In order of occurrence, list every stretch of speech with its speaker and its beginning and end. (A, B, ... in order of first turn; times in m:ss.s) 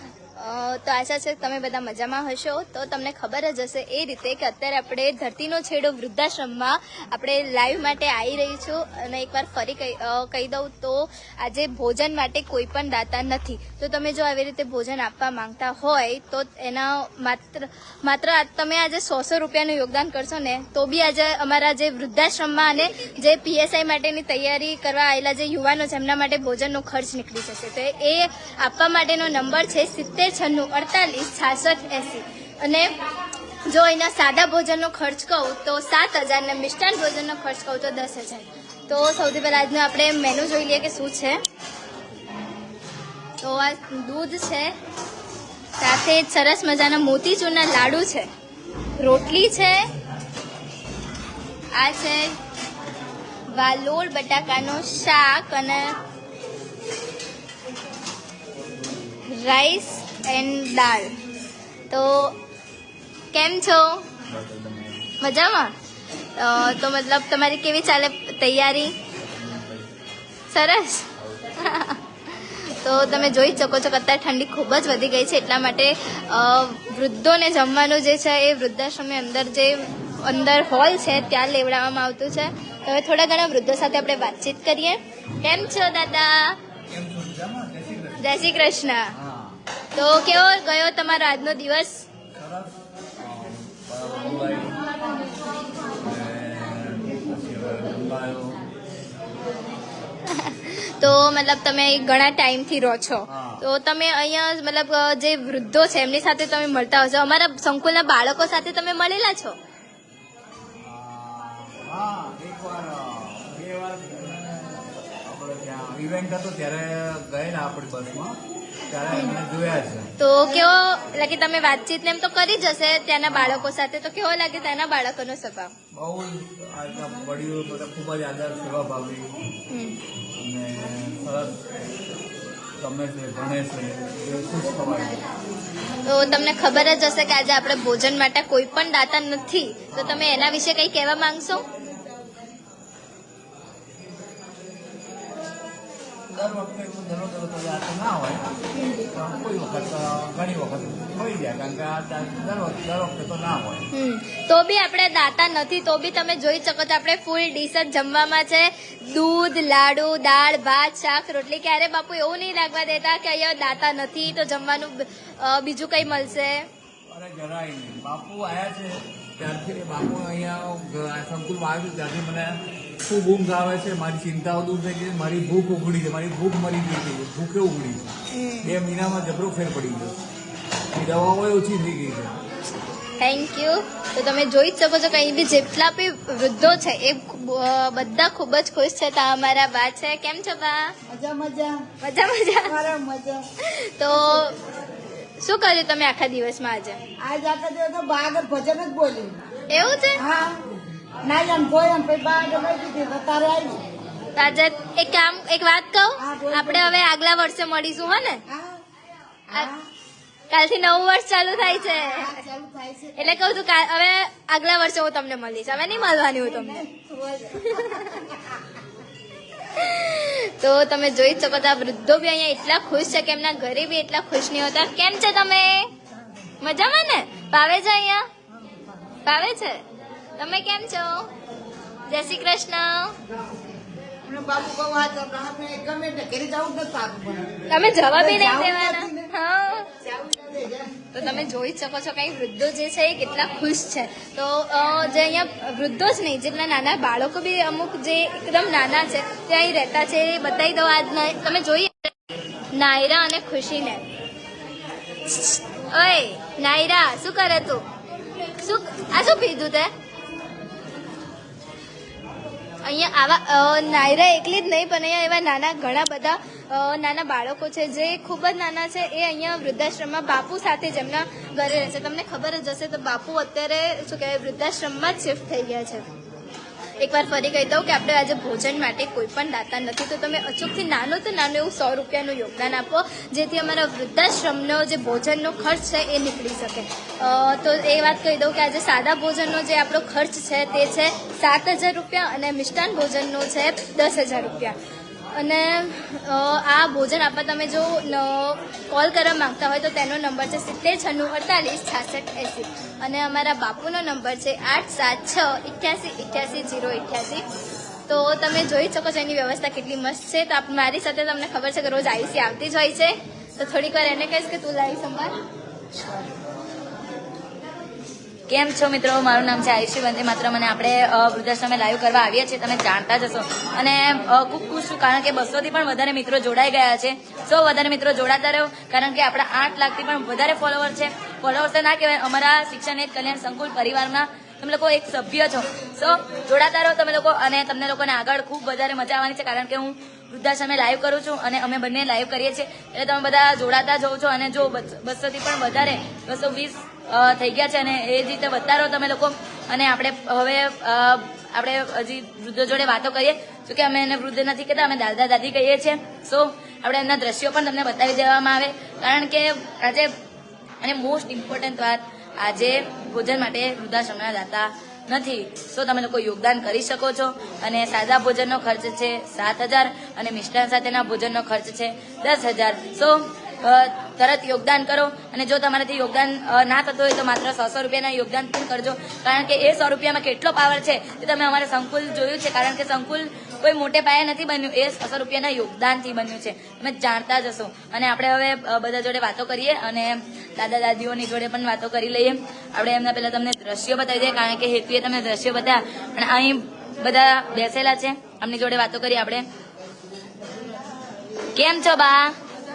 0:00.4-0:32.9 A
0:33.7-0:41.4 A
0:43.4-0:44.7 A
0:45.8-0:48.3 A
0:49.0-0:49.9 A
0:51.8-0:52.4 A
0:53.6-0:56.0 A
0:59.3-1:01.1 A
1:01.9-1:02.4 A
1:03.3-1:04.0 A
1:04.3-1:05.1 B
1:05.2-1:05.7 A
1:06.4-1:08.9 A
1:09.2-1:10.0 B
1:10.5-1:11.1 A
1:11.6-1:26.6 A
1:26.9-1:28.4 B
1:28.2-1:29.1 A
1:29.1-1:29.6 B
1:30.0-1:32.0 A
1:32.4-1:34.8 B
1:36.0-1:38.6 B
1:40.3-1:49.6 A
1:43.3-1:43.6 B
1:50.8-1:58.4 B
1:58.9-2:00.1 B
2:00.2-2:05.7 A
2:03.3-2:03.8 B
2:05.9-2:09.4 B
2:09.7-2:10.0 A
2:10.4-2:11.6 B
2:12.8-2:15.2 B
2:16.0-2:21.7 A
2:19.9-2:20.3 B
2:26.3-2:28.5 B
2:28.7-2:29.0 A
2:29.1-2:33.9 B
2:33.9-2:46.6 A
2:47.1-3:00.2 B
2:58.3-2:58.7 A
3:00.9-3:02.4 B
3:03.2-3:10.9 A
3:11.1-3:11.9 C
3:12.0-3:12.8 A
3:12.7-3:13.5 C
3:13.7-3:14.6 A
3:15.4-3:17.0 A
3:17.2-3:19.4 C
3:19.7-3:20.2 A
3:20.2-3:20.6 C
3:21.2-3:23.8 C
3:24.4-3:28.4 A
3:26.2-3:26.9 C
3:28.5-3:28.8 C
3:29.5-3:29.9 C
3:30.5-3:32.4 A
3:31.9-3:33.4 C
3:33.2-3:36.8 A
3:36.4-3:38.3 C
3:37.7-3:38.4 A
3:39.6-3:45.9 A
3:46.6-3:48.3 A
3:49.3-3:49.8 A
3:50.4-3:51.3 A
3:52.1-3:53.1 A
3:54.2-3:59.3 C
3:57.7-3:59.9 A
4:00.0-4:00.9 C
4:01.1-4:12.1 A
4:12.7-4:14.0 A
4:15.3-4:17.8 A
4:18.6-4:19.9 A
4:22.8-4:36.1 A
4:37.0-4:54.8 A
4:55.4-5:07.4 A
5:08.1-5:15.4 A
5:18.5-6:00.1 D
6:00.8-6:39.4 D
6:41.6-6:42.4 D